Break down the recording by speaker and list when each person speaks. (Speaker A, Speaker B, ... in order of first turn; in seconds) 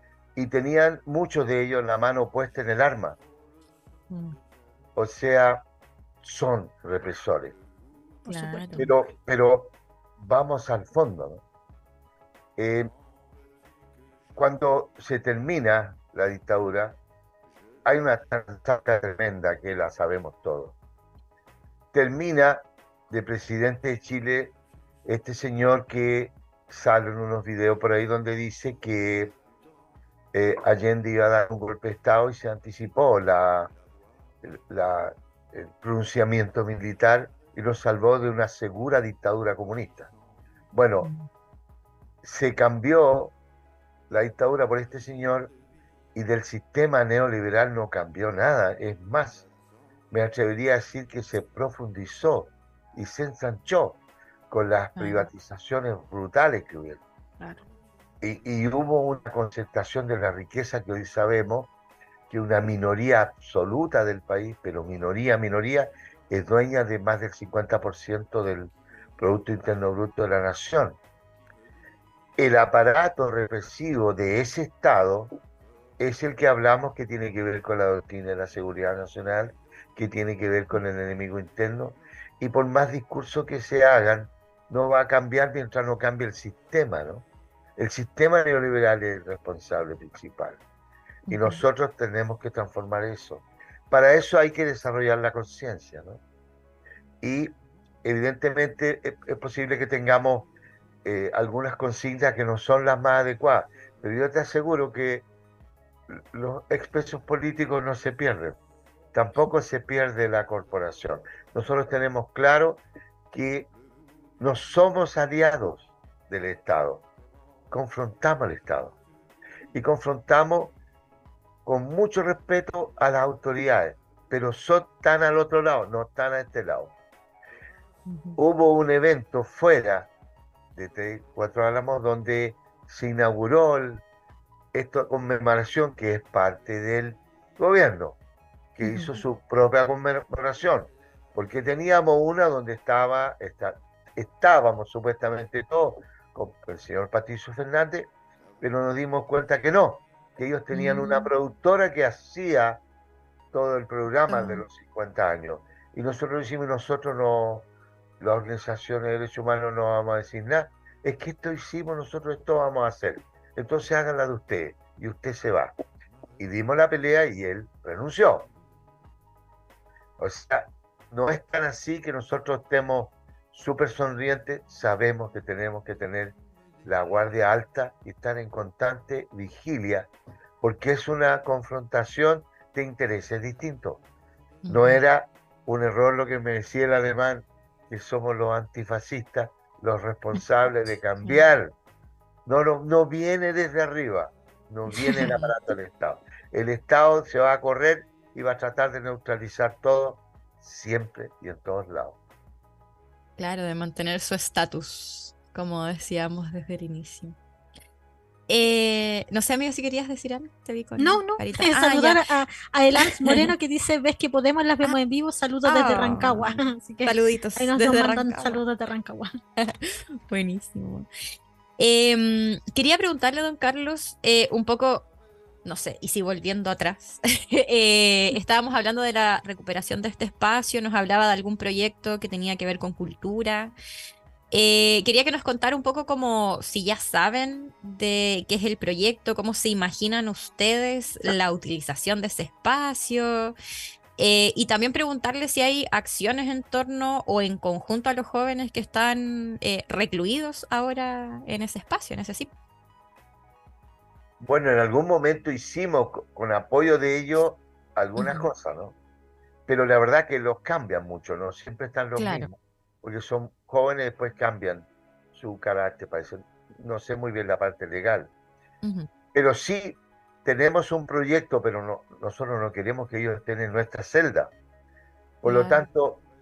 Speaker A: 0.3-3.2, 5.0-5.6, 6.2-7.5, 8.8-11.4, 12.6-12.9, 14.3-17.0, 17.8-20.7, 21.9-24.5, 25.1-29.3, 30.3-33.7, 34.4-40.1, 40.7-41.1, 42.2-43.3, 44.1-45.5, 46.1-49.5, 50.1-54.0, 54.5-57.0, 58.2-61.7, 62.3-71.0, 72.4-75.3, 76.0-87.2, 87.8-90.6, 91.3-96.2, 97.2-97.5, 98.0-100.5, 101.0-105.3, 106.1-108.6, 109.1-113.7, 114.4-117.0, 117.7-119.0, 119.7-120.7, 121.6-126.9, 128.4-130.1, 130.7-134.0, 134.7-138.2, 138.8-152.8, 153.5-157.7, 158.2-165.7, 166.4-168.5, 170.2-180.1, 180.6-184.0, 184.7-191.7, 192.4-202.2, 254.4-258.9, 259.7-268.3, 269.3-274.5, 275.4-276.2
Speaker B: 4.1-4.4, 8.3-8.8, 41.0-41.3, 55.0-55.3, 91.3-91.6, 128.1-128.4, 138.8-139.2, 150.7-151.3, 154.3-154.6, 184.6-185.0, 191.2-191.5, 195.0-195.5, 203.4-207.3, 208.5-212.2, 213.0-213.5, 215.6-218.6, 219.6-221.1, 221.8-225.1, 225.6-233.7, 234.5-243.5, 244.2-252.5, 258.2-258.4, 262.2-262.5, 268.8-269.1, 275.4-275.9
Speaker C: 8.2-8.9, 211.0-219.4